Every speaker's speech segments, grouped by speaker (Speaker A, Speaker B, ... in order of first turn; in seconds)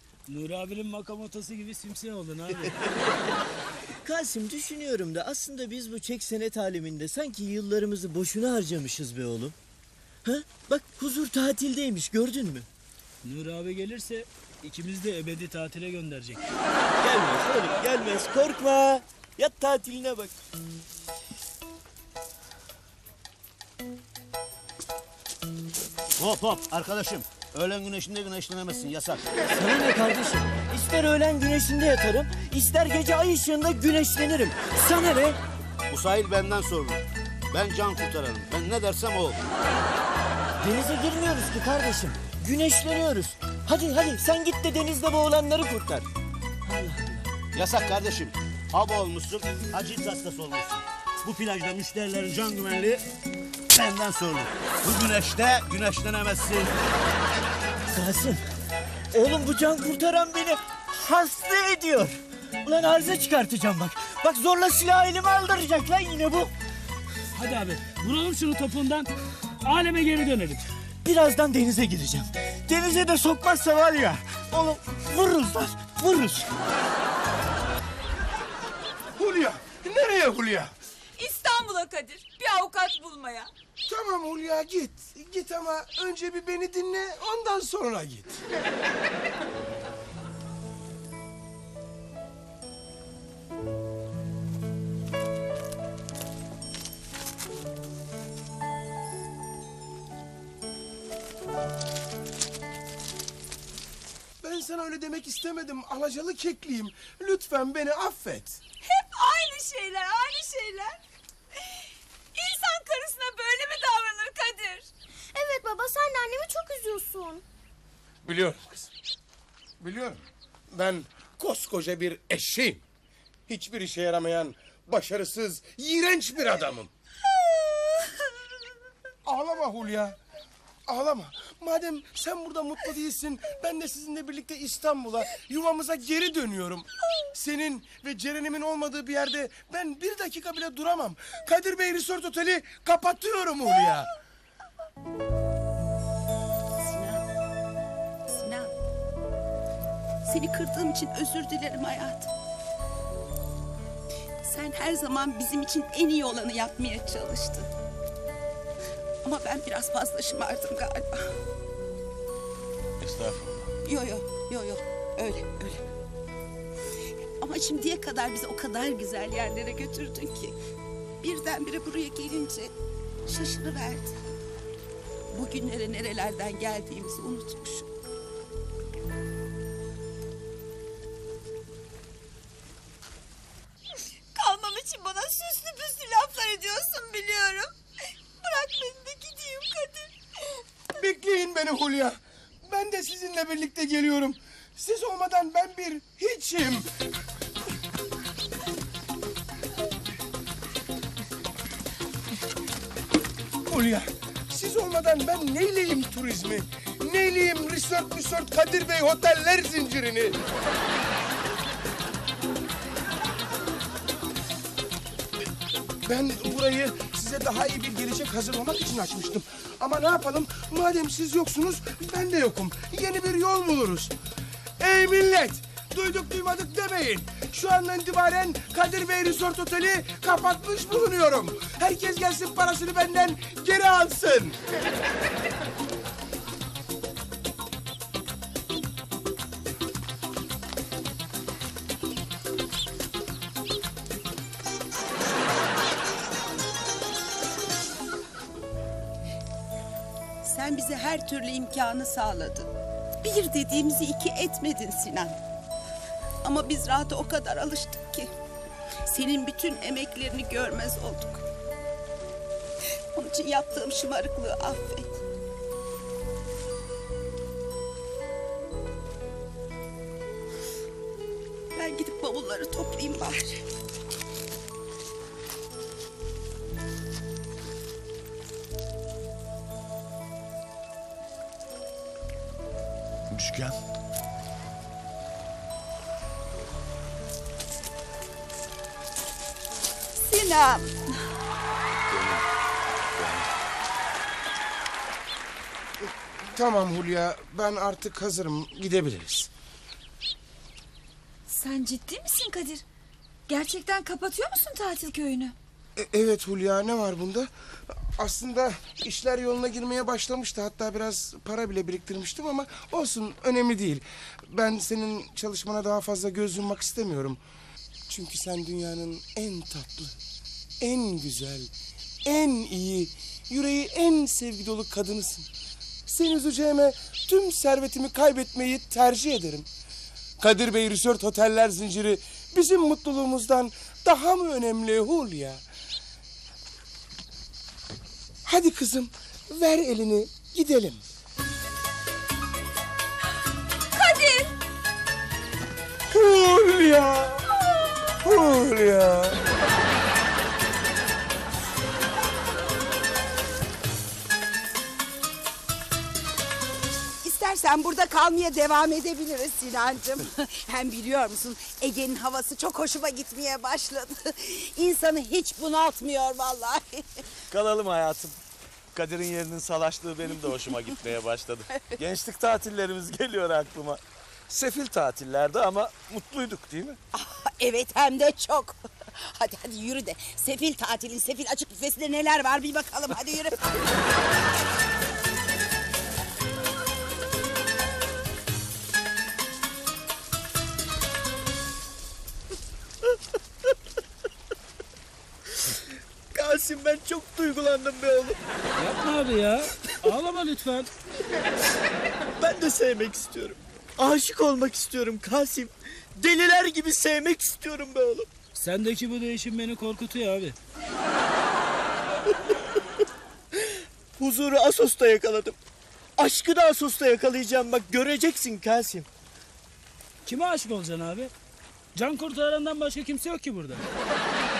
Speaker A: 0.3-2.7, 13.2-16.4, 67.3-70.6, 398.8-400.9, 408.5-410.6, 420.2-421.3, 421.9-423.8
Speaker B: 4.0-9.6, 10.2-12.7, 17.0-20.3, 29.5-35.4, 40.6-46.1, 46.6-47.3, 57.9-58.4, 59.1-66.5, 71.0-76.5, 396.3-398.4, 402.4-408.3, 413.6-415.6, 416.2-419.1
Speaker C: 26.2-29.2, 35.9-39.4, 47.5-53.0, 53.7-56.7
Speaker D: 79.2-80.7, 83.8-88.4, 104.4-108.6, 118.2-118.9, 119.8-122.8, 123.5-126.9, 129.2-130.2, 130.9-144.1, 190.9-196.9, 203.7-210.4, 216.0-224.1, 224.8-234.6, 296.5-299.5, 305.9-317.4, 318.1-320.2, 320.8-321.7, 322.2-325.5, 326.1-329.7, 330.4-335.6, 338.4-341.0, 346.1-347.5, 348.2-349.4
Speaker E: 81.2-83.5, 108.8-111.0, 112.3-114.9, 184.3-187.7, 188.4-190.1, 301.5-302.8, 303.5-305.5, 344.0-344.5
Speaker F: 115.3-117.4
Speaker G: 146.8-147.2, 148.3-148.7, 150.2-152.3, 154.4-157.7, 159.2-161.3, 163.8-165.8, 167.4-170.6, 171.2-172.7, 173.3-174.1, 175.3-177.9, 250.4-252.7, 253.2-255.4, 256.4-258.3, 259.1-261.4, 263.1-265.2, 271.7-273.6, 290.2-291.2, 357.2-367.4, 377.1-383.6
Speaker H: 163.0-163.7, 283.4-283.7, 367.5-368.4, 368.9-377.0